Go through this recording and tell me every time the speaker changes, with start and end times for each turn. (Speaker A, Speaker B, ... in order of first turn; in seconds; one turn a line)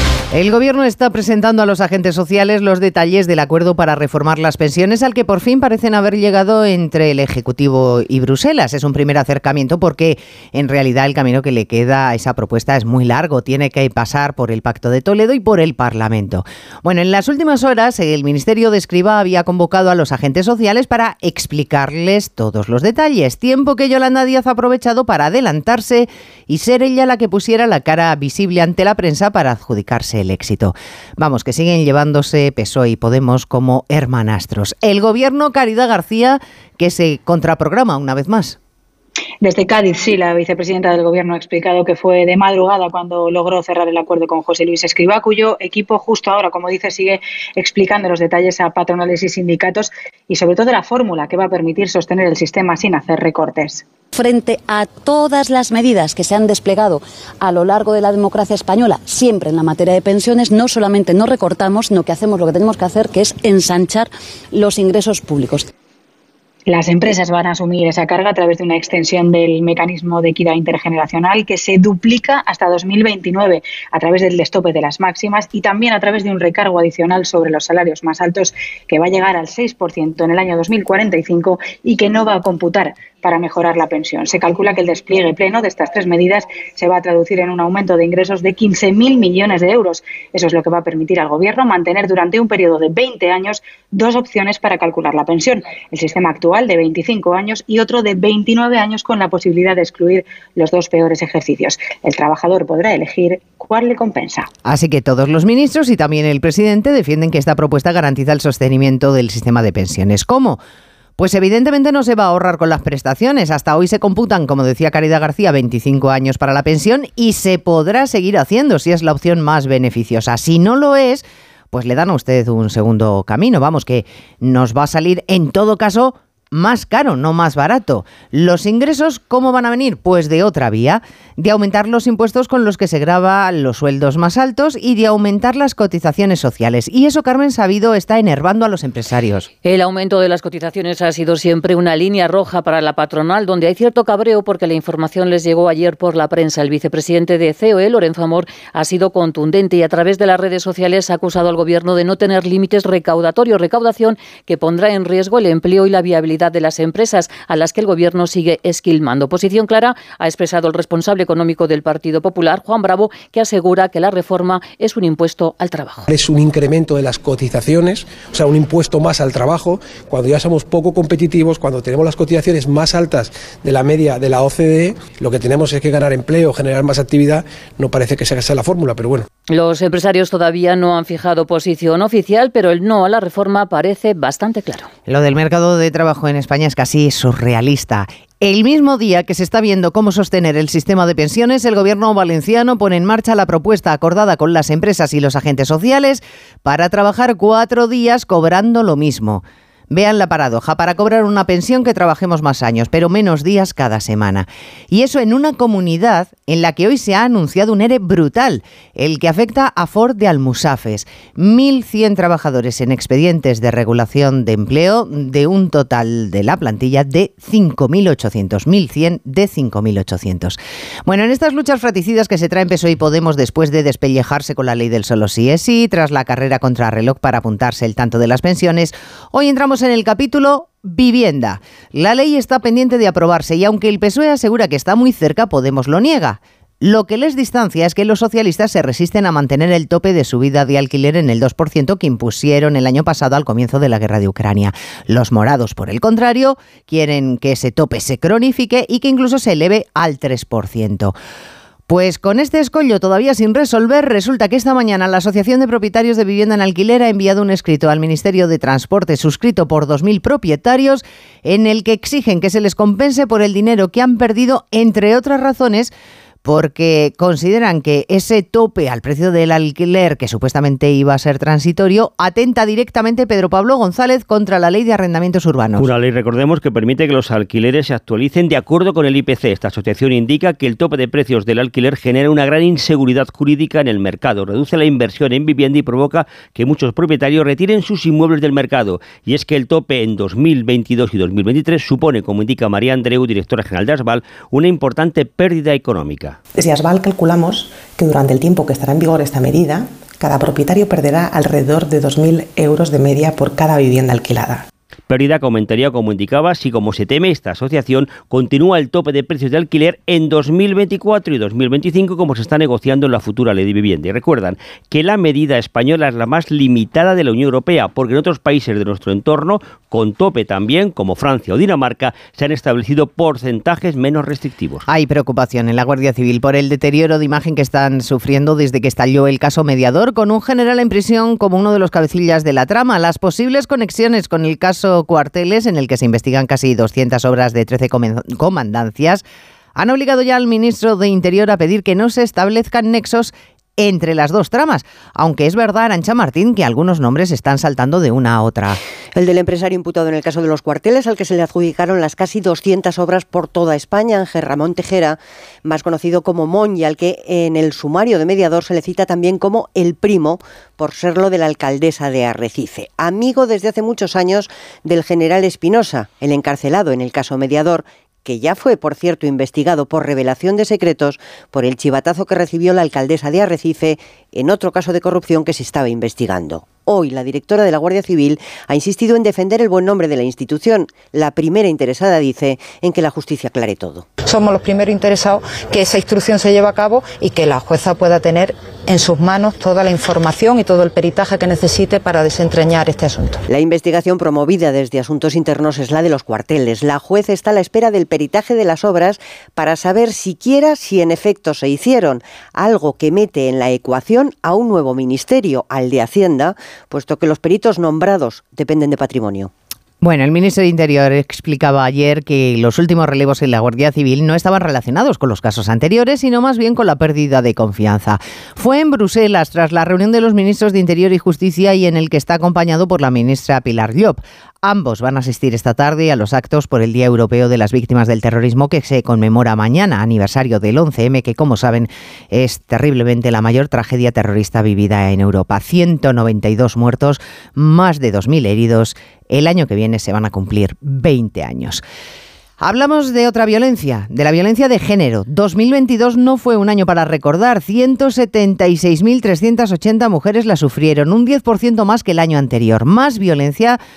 Speaker A: 0.3-38.6
Speaker B: 39.4-53.8
Speaker C: 54.1-65.7
Speaker B: 66.7-104.5
Speaker A: 104.6-110.6
Speaker A: 111.2-139.5
Speaker D: 139.7-166.0
Speaker E: 166.2-169.6
Speaker E: 170.1-179.2
Speaker D: 179.6-184.8
Speaker A: 185.1-251.1
Speaker A: 251.9-265.9
Speaker A: 266.4-275.9
Speaker F: 275.8-296.4
Speaker G: 296.5-304.6
Speaker F: 305.1-324.8
Speaker A: 324.9-339.2
Speaker A: 339.8-348.8
Speaker H: 349.1-384.1
Speaker I: 384.2-393.4
Speaker H: 393.5-409.5
Speaker A: 410.0-441.8
Speaker A: 442.6-453.8